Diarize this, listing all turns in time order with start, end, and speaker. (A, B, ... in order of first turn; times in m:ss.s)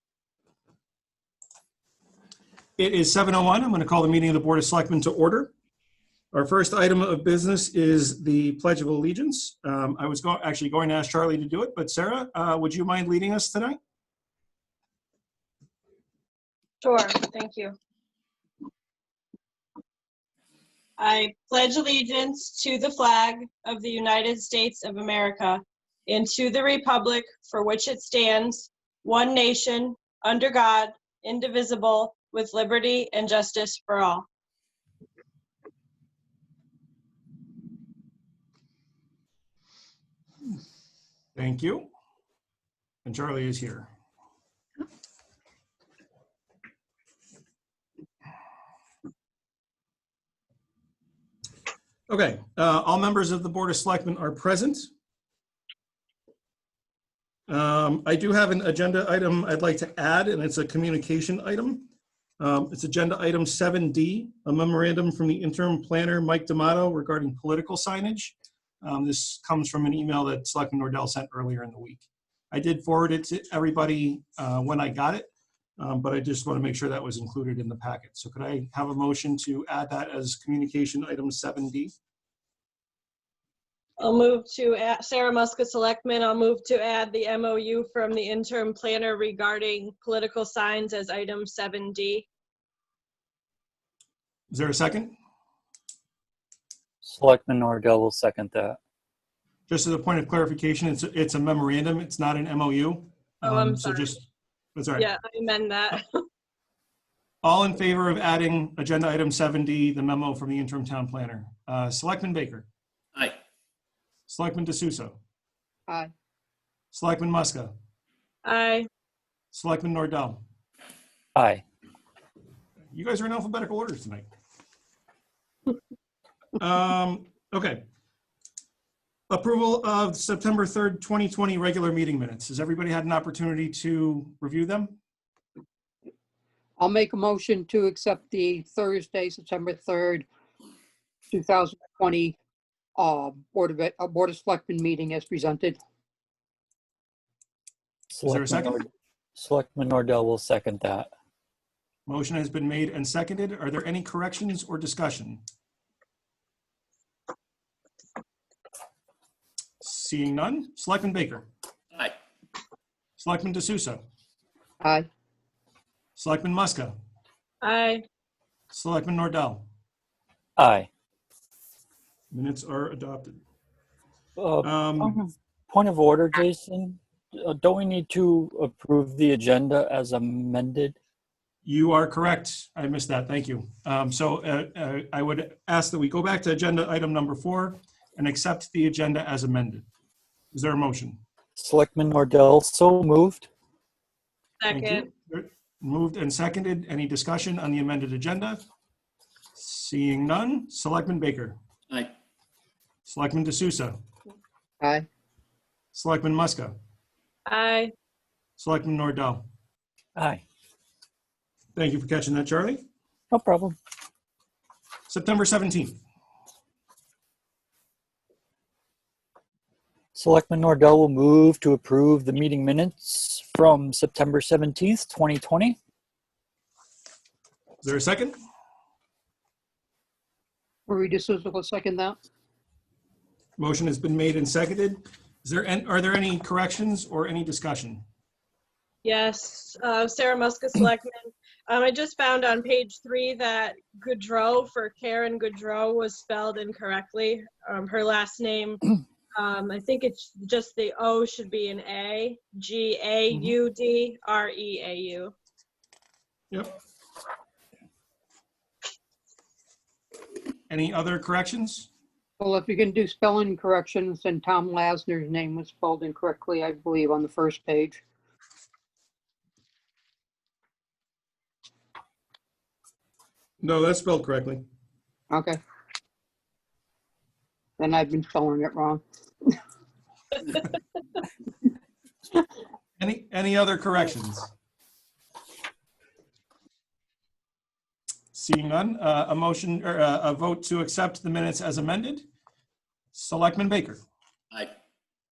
0:02.8-0:05.5 A
0:06.3-0:13.8 A
0:16.8-0:17.8 B
0:21.0-0:34.3 B
0:41.4-0:41.9 A
0:43.0-0:43.9 A
0:52.1-0:54.9 A
0:57.5-1:01.9 A
1:02.4-1:21.9 A
1:24.0-1:32.3 B
1:34.5-1:35.1 A
1:37.0-1:38.8 C
1:39.7-1:44.2 A
1:43.4-1:44.2 B
1:44.8-1:45.1 A
1:45.0-1:46.0 B
1:47.4-1:52.7 A
1:54.3-1:55.2 A
1:56.9-1:57.7 A
1:58.4-1:58.9 B
1:59.5-2:00.4 A
2:01.4-2:01.6 C
2:02.9-2:04.3 A
2:06.6-2:07.8 A
2:09.3-2:15.0 A
2:16.8-2:20.3 D
2:21.3-2:22.4 D
2:23.0-2:25.8 D
2:28.1-2:31.1 C
2:28.3-2:28.8 A
2:32.1-2:35.4 A
2:39.8-2:41.5 A
2:43.2-2:44.0 A
2:44.8-2:45.1 D
2:46.2-2:47.0 A
2:47.6-2:48.0 B
2:48.7-2:49.7 A
2:50.6-2:50.9 C
2:52.3-2:53.4 A
2:54.4-3:01.0 C
2:54.6-2:55.2 A
3:01.6-3:09.9 A
3:10.5-3:11.2 A
3:11.6-3:13.5 C
3:14.6-3:15.1 B
3:14.7-3:18.6 A
3:19.6-3:21.6 A
3:23.1-3:24.0 A
3:24.8-3:25.1 D
3:25.9-3:26.8 A
3:27.5-3:27.9 B
3:28.6-3:29.4 A
3:30.2-3:30.4 C
3:31.8-3:32.8 A
3:33.3-3:33.8 C
3:35.1-3:36.0 A
3:40.2-3:45.8 C
3:47.8-3:48.4 A
3:50.9-3:52.2 D
3:53.6-3:58.0 A
3:59.0-4:08.8 B
4:09.4-4:15.3 B
4:20.7-4:21.9 A
4:22.4-4:28.0 D
4:33.6-4:34.6 A
4:35.3-4:35.6 D
4:37.8-4:39.0 D
4:43.0-4:44.5 A
4:48.3-4:52.2 A
4:53.1-4:54.0 A